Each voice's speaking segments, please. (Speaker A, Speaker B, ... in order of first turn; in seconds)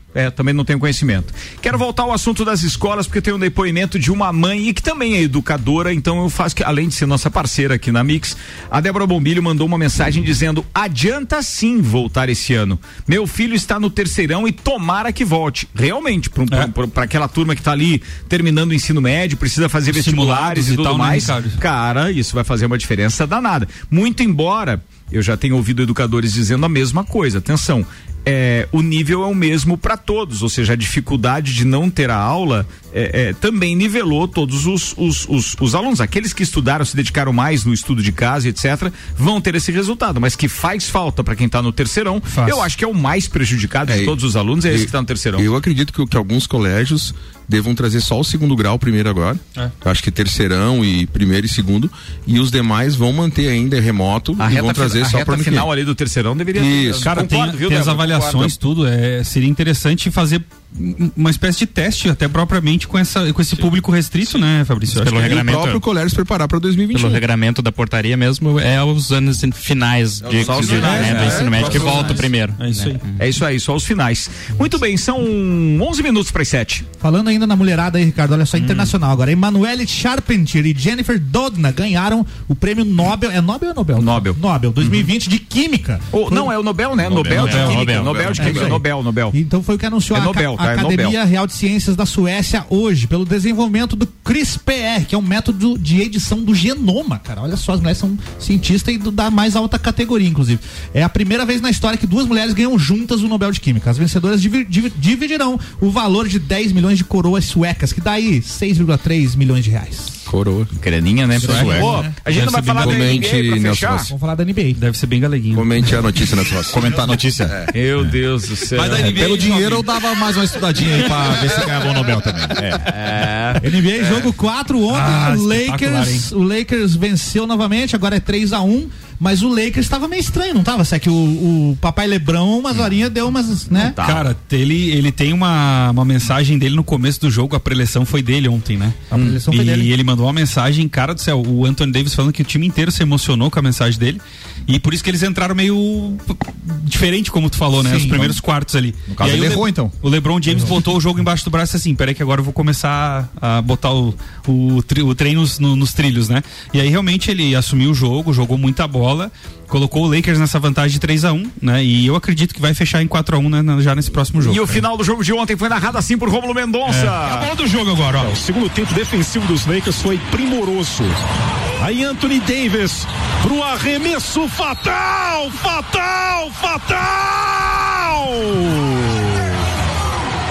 Speaker A: 0.1-45.5, 54.4-58.6, 73.2-76.8, 84.0-85.1, 86.1-89.3, 90.1-91.2, 110.8-114.1, 117.7-119.5, 122.9-124.3, 133.7-134.3, 164.4-167.5
Speaker B: 19.9-21.6, 42.3-42.6, 57.0-65.4, 70.7-73.0, 78.6-78.9, 87.3-87.9, 111.4-113.3, 114.8-115.7, 118.7-119.9, 124.9-126.3, 134.0-139.0, 139.5-164.8, 166.9-167.2
Speaker C: 43.9-44.1, 44.7-55.7, 56.5-57.2, 65.0-67.2, 70.2-72.2, 87.2-88.8, 110.3-110.7, 112.8-114.1, 115.5-117.0
Speaker D: 65.0-65.8, 66.9-73.2, 87.5-88.2
Speaker E: 70.5-72.2, 87.0-87.7, 116.7-118.1, 118.9-123.0, 148.0-148.4, 149.1-149.9
Speaker F: 77.0-86.5, 88.3-110.1, 111.4-112.1, 114.1-114.8, 123.6-134.0, 139.1-139.9, 147.8-148.1
Speaker G: 167.2-171.2, 171.8-179.3